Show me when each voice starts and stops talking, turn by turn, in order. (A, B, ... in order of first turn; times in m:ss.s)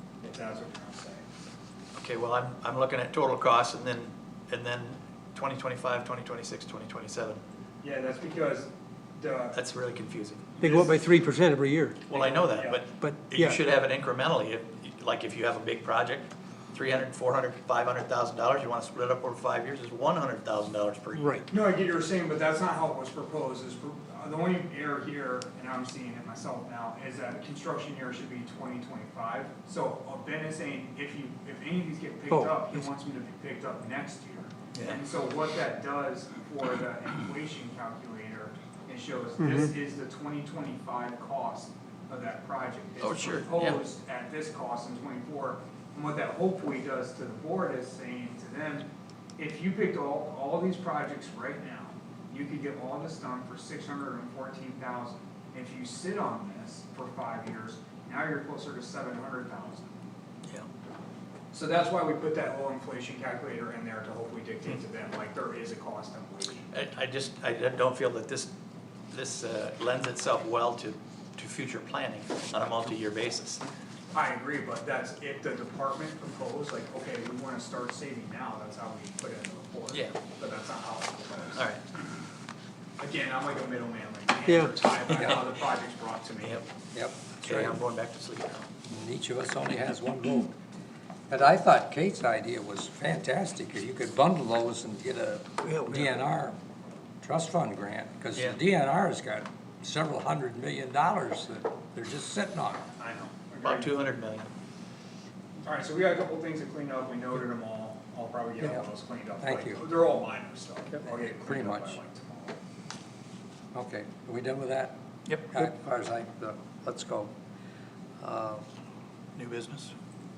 0:00.2-0:01.3 A
0:01.9-0:07.4 B
0:07.8-0:09.6 A
0:09.5-0:10.4 B
0:10.6-0:11.0 A
0:10.6-0:12.0 C
0:12.1-0:21.4 B
0:12.1-0:12.8 A
0:13.0-0:13.6 C
0:21.1-0:21.5 C
0:21.5-0:59.9 A
0:32.3-0:32.8 C
0:34.7-0:35.0 B
0:39.4-0:39.7 C
0:43.0-0:43.8 B
1:01.5-1:06.7 A
1:06.7-1:08.5 B
1:09.1-1:13.6 B
1:14.1-1:21.7 A
1:21.6-1:21.8 B
1:23.0-1:26.6 A
1:24.5-1:24.8 C
1:25.1-1:25.5 B
1:25.1-1:25.4 D
1:26.9-1:27.8 D
1:27.4-1:28.7 B
1:28.9-1:30.5 D
1:31.3-1:36.6 D
1:35.6-1:36.2 C
1:37.2-1:42.9 D
1:43.0-1:44.0 A
1:43.6-1:44.5 B
1:45.6-1:52.6 A
1:48.6-1:48.8 D
1:49.4-1:49.8 D
1:51.0-1:52.0 D
1:53.7-1:57.3 D
1:58.2-1:58.6 D
1:59.4-1:59.9 B